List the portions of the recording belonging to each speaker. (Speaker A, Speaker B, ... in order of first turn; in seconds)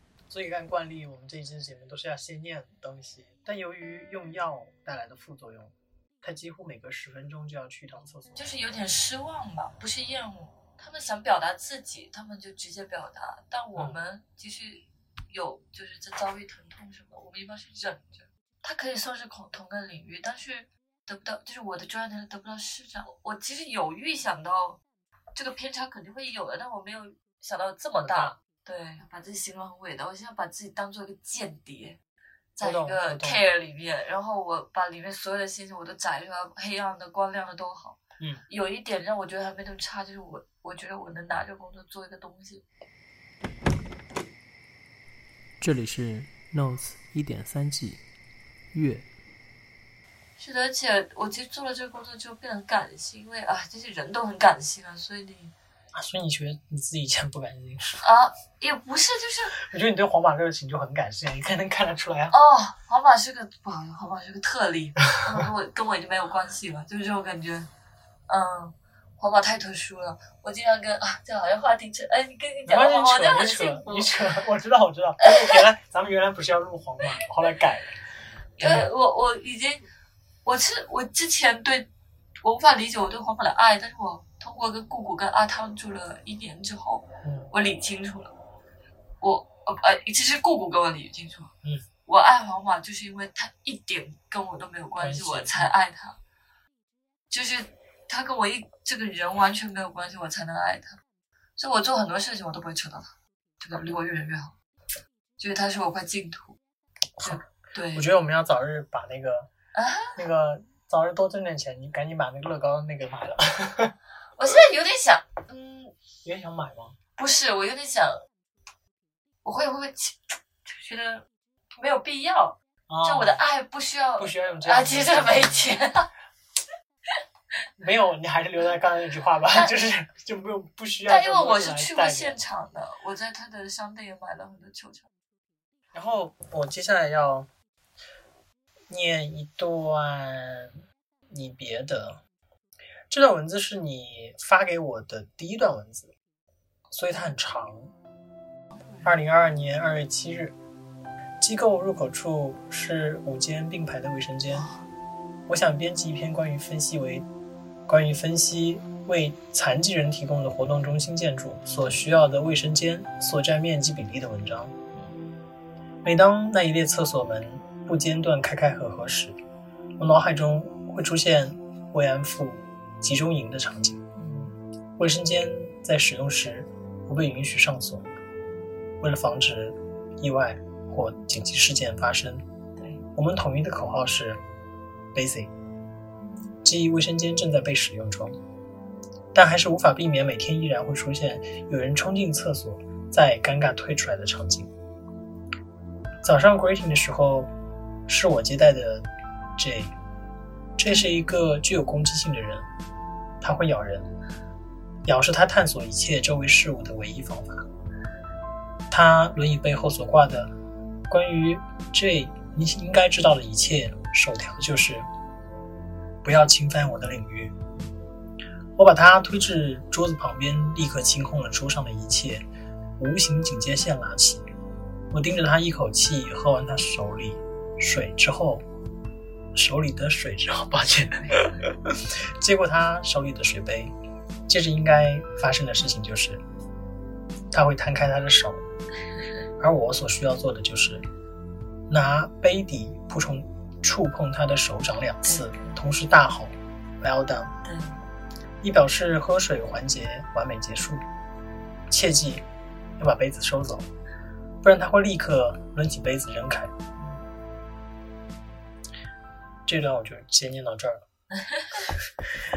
Speaker A: 0.3-8.5, 28.0-28.4, 32.6-33.4, 38.2-38.4, 55.9-58.0, 59.6-62.3, 72.7-78.0, 78.6-78.9, 87.2-87.5, 95.0-95.7, 107.2-109.5, 110.1-113.9, 116.2-116.9, 122.9-123.4, 124.2-125.7, 127.8-132.4, 135.9-137.5, 138.9-142.2, 143.1-146.1, 146.9-147.9, 149.0-150.6, 151.4-154.7, 155.5-157.3, 157.9-164.7, 166.0-169.4, 170.0-174.0, 175.0-178.1, 179.0-182.4, 183.1-184.4, 185.1-185.5, 186.6-188.3, 189.3-194.7, 196.2-197.5, 198.1-199.9, 200.8-202.7, 203.4-204.1, 205.0-207.7, 208.9-210.5, 211.1-215.1, 216.2-217.6, 218.8-222.4, 223.0-224.4, 225.1-228.6, 229.5-233.9, 234.5-236.4, 237.5-238.6, 239.6-241.1, 241.9-247.5, 248.6-251.0, 251.9-252.4, 253.0-253.9, 254.6-256.7, 259.7-261.0
Speaker B: 8.3-24.8, 25.3-32.0, 32.5-42.6, 50.4-55.5, 58.0-59.6, 62.3-67.7, 68.3-74.1, 75.2-75.6, 78.6-79.8, 80.4-81.9, 82.4-88.3, 89.2-91.5, 92.0-96.2, 97.3-101.0, 101.6-104.5, 105.4-106.6, 107.2-108.1, 109.7-110.2, 114.3-115.9, 117.2-118.2, 119.4-121.2, 121.8-126.1, 131.1-135.1, 154.5-154.8, 164.9-165.2, 174.1-174.6, 182.8-183.0, 186.2-186.6, 231.1-231.6, 245.2-245.8, 247.6-248.0, 257.0-257.2, 261.4-261.9
Speaker C: 45.6-48.0, 48.7-49.1